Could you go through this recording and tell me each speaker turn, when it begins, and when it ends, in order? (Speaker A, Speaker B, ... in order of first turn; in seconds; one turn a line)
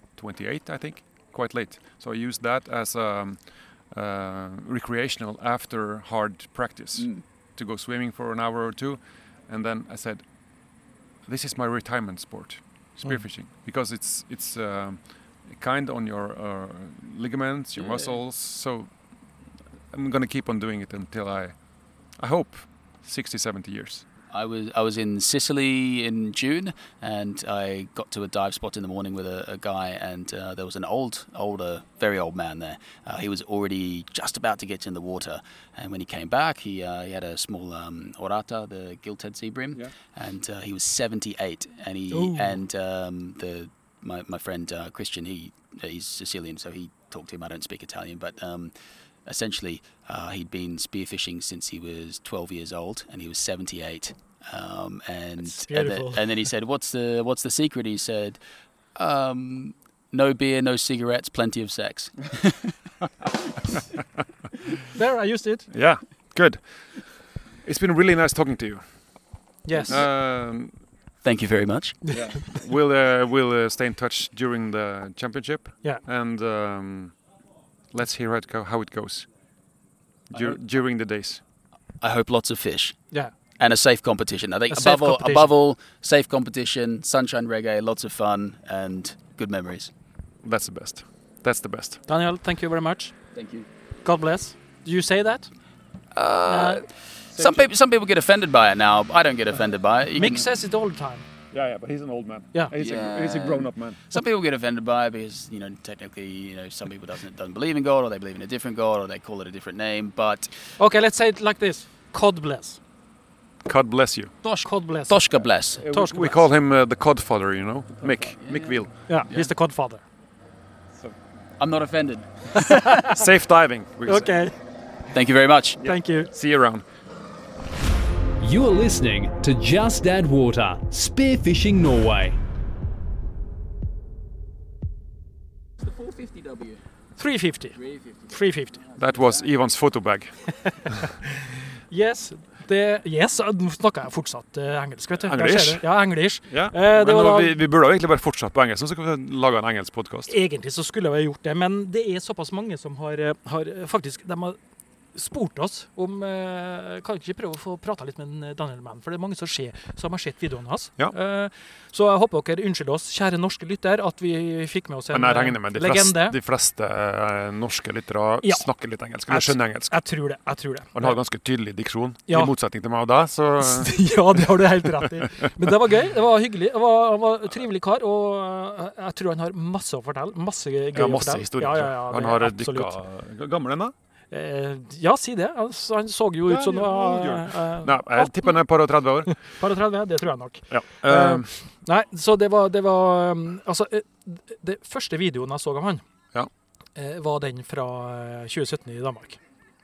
Speaker A: 0.2-10.2
Speaker A: 11.3-18.9
Speaker A: 19.9-21.5
Speaker A: 22.2-24.0
Speaker B: 24.3-48.7
Speaker C: 42.1-42.6
Speaker B: 49.2-58.4
Speaker C: 55.4-56.2
Speaker B: 59.0-62.8
Speaker C: 64.9-65.7
Speaker A: 65.7-66.9
Speaker A: 67.6-68.8
Speaker C: 69.6-70.0
Speaker B: 69.7-70.0
Speaker A: 69.9-70.7
Speaker B: 71.2-72.4
Speaker C: 72.0-72.5
Speaker A: 72.2-77.2
Speaker A: 77.9-79.3
Speaker A: 80.3-81.4
Speaker B: 82.0-83.0
Speaker B: 83.6-89.9
Speaker C: 84.7-85.5
Speaker A: 90.4-92.0
Speaker C: 92.1-93.1
Speaker B: 93.3-93.7
Speaker C: 94.0-95.5
Speaker B: 96.1-100.4
Speaker C: 96.5-96.8
Speaker C: 100.2-101.2
Speaker A: 101.5-104.1
Speaker B: 102.8-110.5
Speaker C: 110.8-112.8
Speaker A: 113.6-114.3
Speaker B: 114.4-115.9
Speaker C: 114.6-115.2
Speaker A: 115.8-118.9
Speaker C: 115.8-116.5
Speaker B: 118.0-119.5
Speaker C: 119.1-120.0
Speaker B: 121.6-122.9
Speaker C: 122.5-123.2
Speaker A: 123.0-124.3
Speaker C: 124.0-124.5
Speaker B: 125.1-125.8
Speaker A: 125.8-126.8
Speaker C: 125.8-126.3
Speaker D: 128.4-132.4
Speaker B: 135.8-136.8
Speaker C: 137.2-138.8
Speaker B: 137.8-138.3
Speaker B: 138.9-139.4
Speaker A: 138.9-141.0
Speaker C: 140.7-147.6
Speaker A: 145.2-145.9
Speaker A: 146.5-150.3
Speaker C: 150.3-154.6
Speaker C: 155.1-166.4
Speaker A: 165.1-170.0
Speaker C: 168.4-168.7
Speaker C: 169.3-171.2
Speaker A: 170.9-174.0
Speaker C: 173.6-182.9
Speaker A: 180.9-183.9
Speaker C: 184.3-188.6
Speaker A: 186.5-189.3
Speaker C: 189.3-196.0
Speaker A: 190.7-191.5
Speaker C: 196.9-199.4